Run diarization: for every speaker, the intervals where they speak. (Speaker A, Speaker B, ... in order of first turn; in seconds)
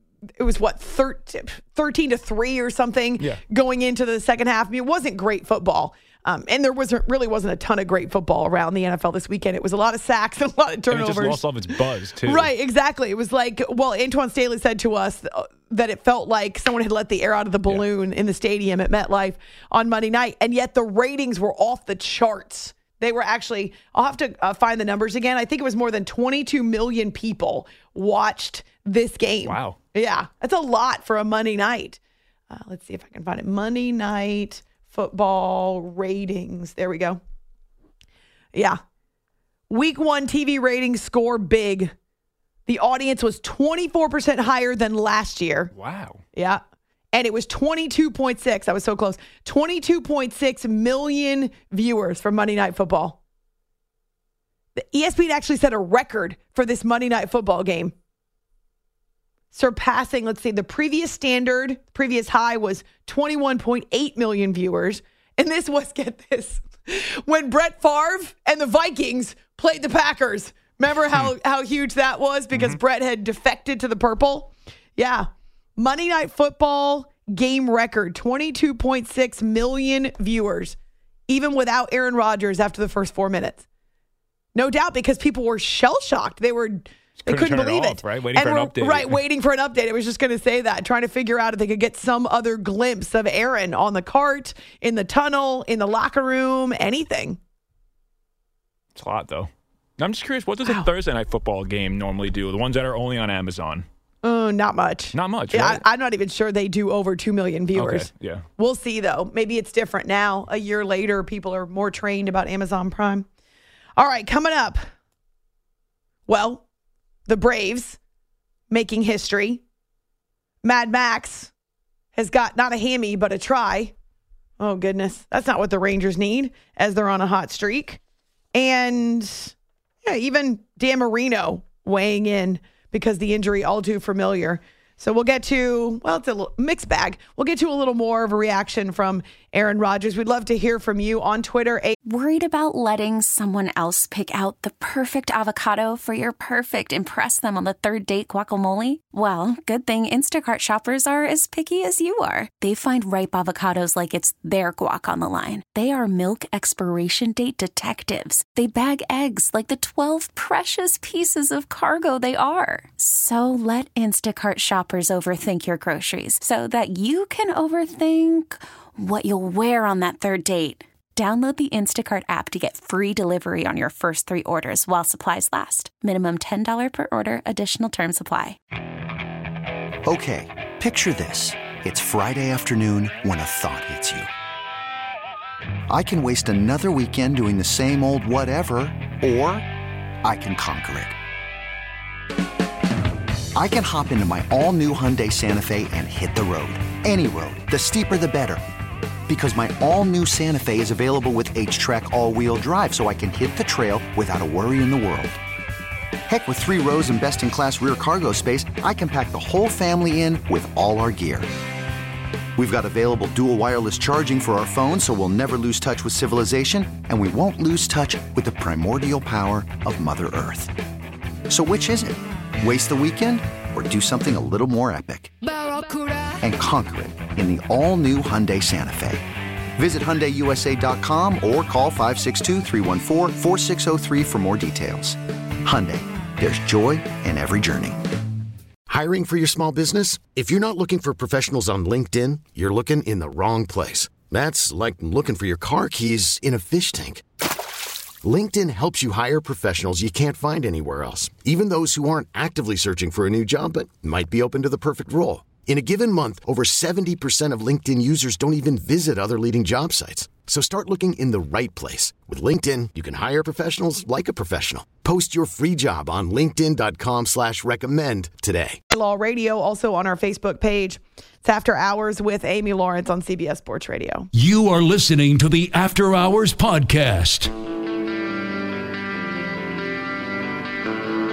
Speaker A: 0.4-11.4, 12.2-32.0, 32.5-37.2, 38.5-38.8, 39.7-41.9, 42.7-45.7, 46.4-46.6, 47.1-53.2, 54.8-57.9, 59.5-80.8, 81.3-83.6, 84.5-97.4, 104.2-113.3, 114.0-114.8, 116.3-116.6, 117.3-118.0, 118.7-119.6, 120.6-121.5, 122.2-123.9, 124.6-128.0, 128.6-141.9, 268.9-274.3
Speaker B: 10.9-12.5, 29.4-29.8, 45.7-46.2, 72.5-72.8, 87.2-89.2, 98.9-103.8, 105.1-105.8, 107.7-108.4
Speaker C: 142.1-178.6
Speaker D: 180.1-184.3, 185.9-189.7, 190.2-191.2, 193.6-198.6, 199.3-205.4, 206.3-211.5, 212.6-220.7, 221.5-225.3, 226.4-229.2, 229.8-238.0
Speaker E: 238.9-247.2, 248.2-268.8
Speaker F: 274.3-277.5